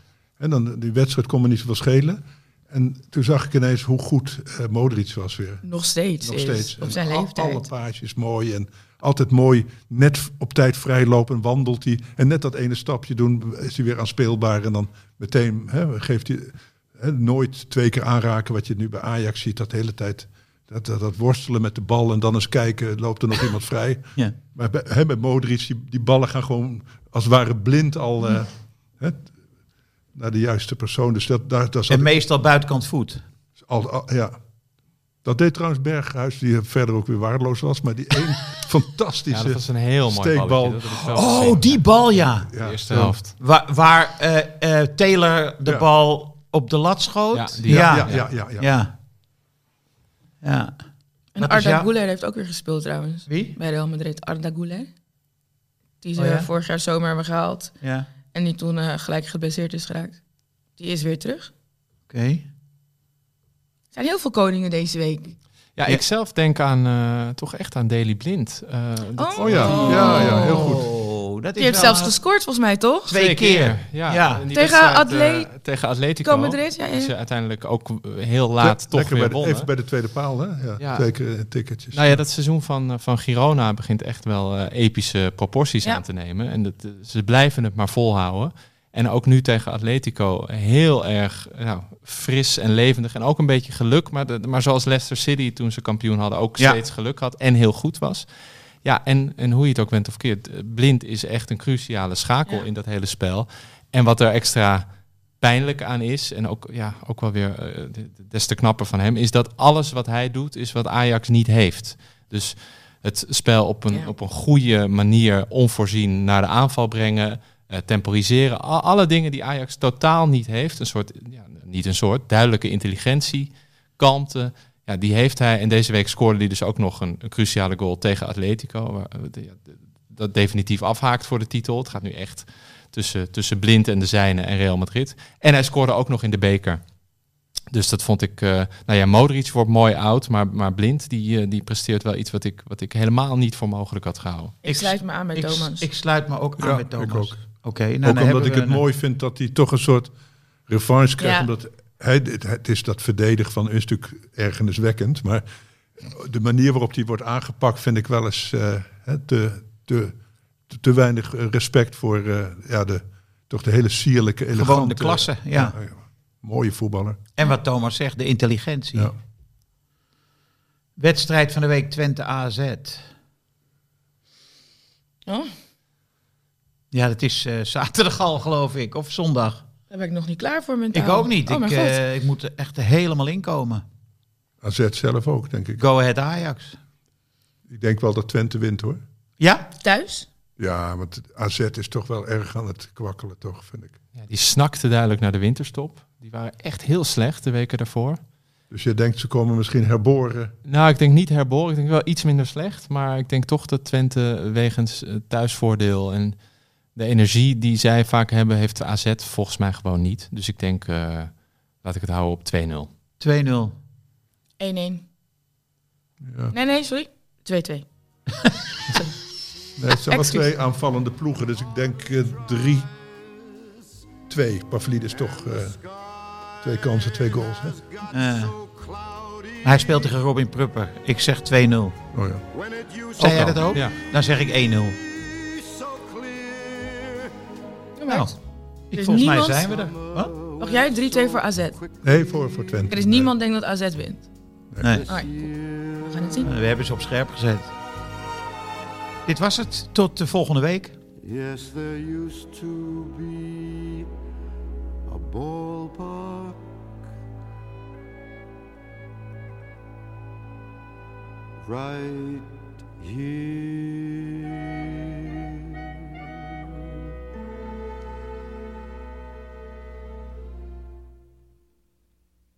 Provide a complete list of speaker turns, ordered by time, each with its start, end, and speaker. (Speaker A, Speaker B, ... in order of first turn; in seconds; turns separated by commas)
Speaker A: 0.4-5.6, Speaker B: 5.6-7.7, Speaker A: 6.2-29.3, Speaker A: 30.1-32.1, Speaker C: 31.9-33.2, Speaker A: 33.6-34.4, Speaker A: 35.2-41.5, Speaker D: 39.3-41.9, Speaker C: 41.1-42.5, Speaker A: 42.5-43.2, Speaker D: 42.5-43.3, Speaker C: 43.3-48.9, Speaker D: 47.3-48.3, Speaker A: 47.7-48.7, Speaker C: 50.4-50.8, Speaker B: 51.4-54.9, Speaker C: 51.4-51.9, Speaker C: 53.3-53.6, Speaker B: 56.0-57.8, Speaker C: 56.2-56.5, Speaker C: 57.8-58.1, Speaker B: 58.3-60.2, Speaker B: 60.8-61.5, Speaker C: 62.1-62.5, Speaker B: 63.9-65.3, Speaker D: 65.8-70.2, Speaker B: 69.2-70.7, Speaker A: 69.4-70.8, Speaker C: 69.7-72.1, Speaker B: 71.6-73.2, Speaker C: 73.1-74.4, Speaker D: 73.1-79.7, Speaker B: 74.5-75.5, Speaker B: 76.2-77.1, Speaker A: 78.6-82.2, Speaker D: 80.8-81.1, Speaker D: 81.9-98.3, Speaker D: 98.8-104.9, Speaker D: 105.4-136.9, Speaker D: 137.7-144.6, Speaker B: 144.6-145.9, Speaker C: 144.7-148.8, Speaker A: 146.6-147.4, Speaker A: 148.0-150.1, Speaker A: 150.7-155.4, Speaker B: 151.2-151.5, Speaker A: 156.0-160.2, Speaker A: 160.7-167.2, Speaker C: 164.5-165.7, Speaker C: 167.4-169.1, Speaker C: 171.0-173.1, Speaker B: 175.3-175.5, Speaker C: 176.9-179.6, Speaker B: 179.9-182.0, Speaker C: 180.9-183.8, Speaker A: 184.6-185.8, Speaker C: 185.8-186.8, Speaker A: 187.7-189.0, Speaker C: 189.4-189.7, Speaker B: 189.8-190.3, Speaker A: 190.6-194.0, Speaker D: 194.2-198.2, Speaker A: 198.7-200.5, Speaker D: 200.7-206.4, Speaker D: 206.9-212.9, Speaker C: 213.2-213.8, Speaker B: 214.6-215.0, Speaker A: 216.2-216.6, Speaker B: 216.5-217.9, Speaker A: 219.8-222.9, Speaker B: 220.1-220.4, Speaker A: 224.3-225.8, Speaker E: 225.2-230.2, Speaker A: 226.6-227.8, Speaker C: 228.1-228.6, Speaker C: 229.6-231.9, Speaker A: 232.1-232.4, Speaker E: 232.5-233.9, Speaker D: 233.2-234.0, Speaker C: 233.2-235.0, Speaker E: 235.0-237.3, Speaker B: 238.0-238.4, Speaker C: 238.9-240.3, Speaker B: 238.9-239.7, Speaker E: 239.1-242.6, Speaker B: 240.6-241.8, Speaker A: 242.0-243.3, Speaker B: 242.9-244.3, Speaker A: 244.7-245.0, Speaker E: 244.8-246.5, Speaker B: 245.1-246.5, Speaker C: 246.4-247.7, Speaker C: 249.3-251.0, Speaker E: 251.2-254.1, Speaker E: 255.1-256.6, Speaker E: 261.6-264.9